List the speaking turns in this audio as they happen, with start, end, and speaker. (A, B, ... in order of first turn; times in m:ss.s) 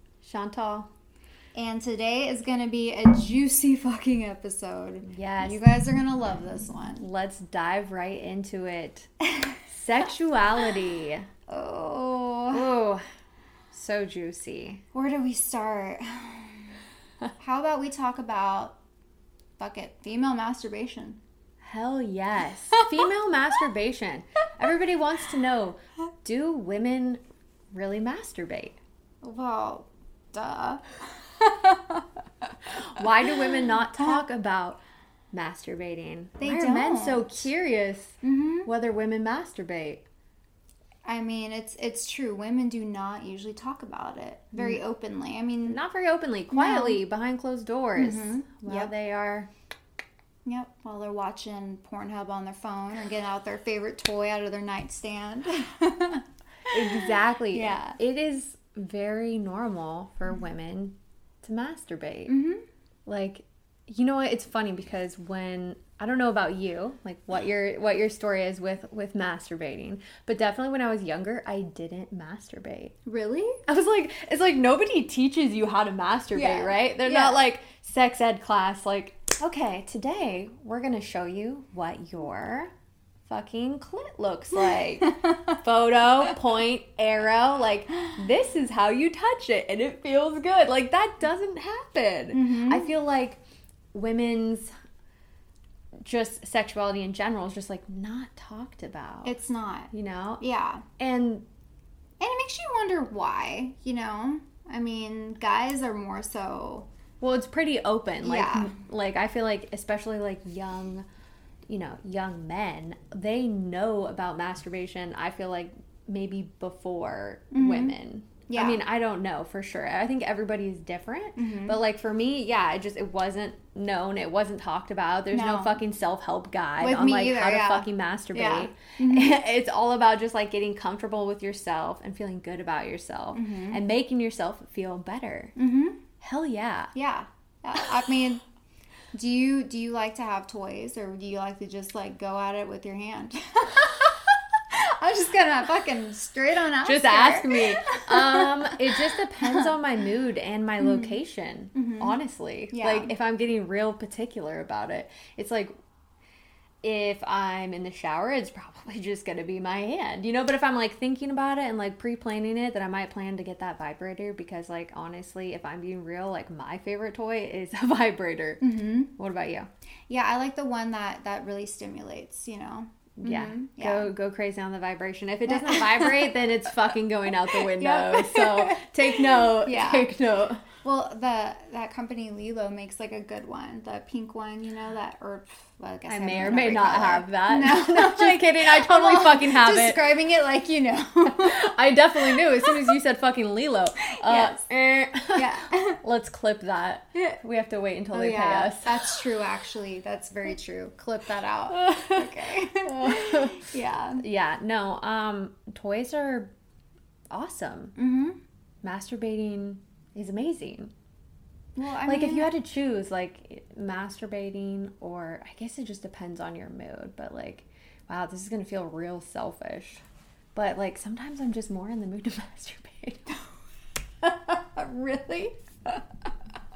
0:00.2-0:00.9 A
0:01.5-0:07.0 B
0:05.0-0:05.6 A
0:07.0-0:09.1 A
0:09.2-0:09.6 B
0:09.7-0:11.3 A
0:11.5-0:12.7 B
0:12.5-0:13.0 A
0:13.7-0:14.8 A
0:14.9-0:16.7 B
0:17.4-0:18.8 B
0:19.6-0:21.2 B
0:21.6-0:27.2 A
0:27.7-0:28.8 A
0:29.2-0:33.3 B
0:32.8-0:34.8 A
0:35.3-0:40.0 A
0:36.4-0:37.5 B
0:38.2-0:38.7 B
0:41.0-0:45.8 B
0:44.6-0:44.8 A
0:45.7-0:49.5 A
0:46.5-0:47.0 B
0:48.0-0:48.9 B
0:50.4-0:58.0 B
0:56.7-1:02.3 A
1:02.3-1:02.6 B
1:03.0-1:12.9 A
1:13.0-1:13.6 B
1:13.7-1:22.7 A
1:16.3-1:17.4 B
1:23.2-1:33.4 A
1:25.0-1:25.5 B
1:32.3-1:32.9 B
1:33.9-1:34.7 A
1:36.0-1:39.3 A
1:39.2-1:40.8 B
1:39.9-1:40.4 A
1:41.0-1:41.4 A
1:42.2-1:46.9 B
1:47.2-1:51.0 A
1:48.2-1:48.8 B
1:51.7-2:15.5 A
1:57.5-1:57.9 B
1:58.5-1:58.8 B
2:01.4-2:01.8 B
2:05.3-2:05.8 B
2:06.8-2:09.4 B
2:13.3-2:13.8 B
2:15.6-2:16.0 B
2:16.2-2:16.9 A
2:16.9-2:18.4 B
2:19.1-2:29.7 B
2:26.8-2:35.7 A
2:30.8-2:31.2 B
2:31.7-2:32.2 B
2:32.7-2:33.1 B
2:36.8-2:48.6 A
2:48.6-2:49.1 B
2:49.2-2:49.7 A
2:50.1-2:54.1 B
2:53.2-3:00.6 A
2:55.5-2:56.3 B
2:57.4-3:00.1 B
3:00.8-3:13.0 B
3:06.1-3:10.1 A
3:11.2-3:19.2 A
3:14.0-3:14.7 B
3:15.3-3:16.0 B
3:17.1-3:17.4 B
3:18.1-3:24.2 B
3:21.7-3:22.3 A
3:22.8-3:23.6 A
3:24.2-3:26.5 A
3:27.3-3:27.9 A
3:28.0-3:28.4 B
3:28.8-3:30.9 A
3:31.8-3:32.5 B
3:32.0-3:40.0 A
3:40.5-3:43.2 A
3:44.2-3:46.3 B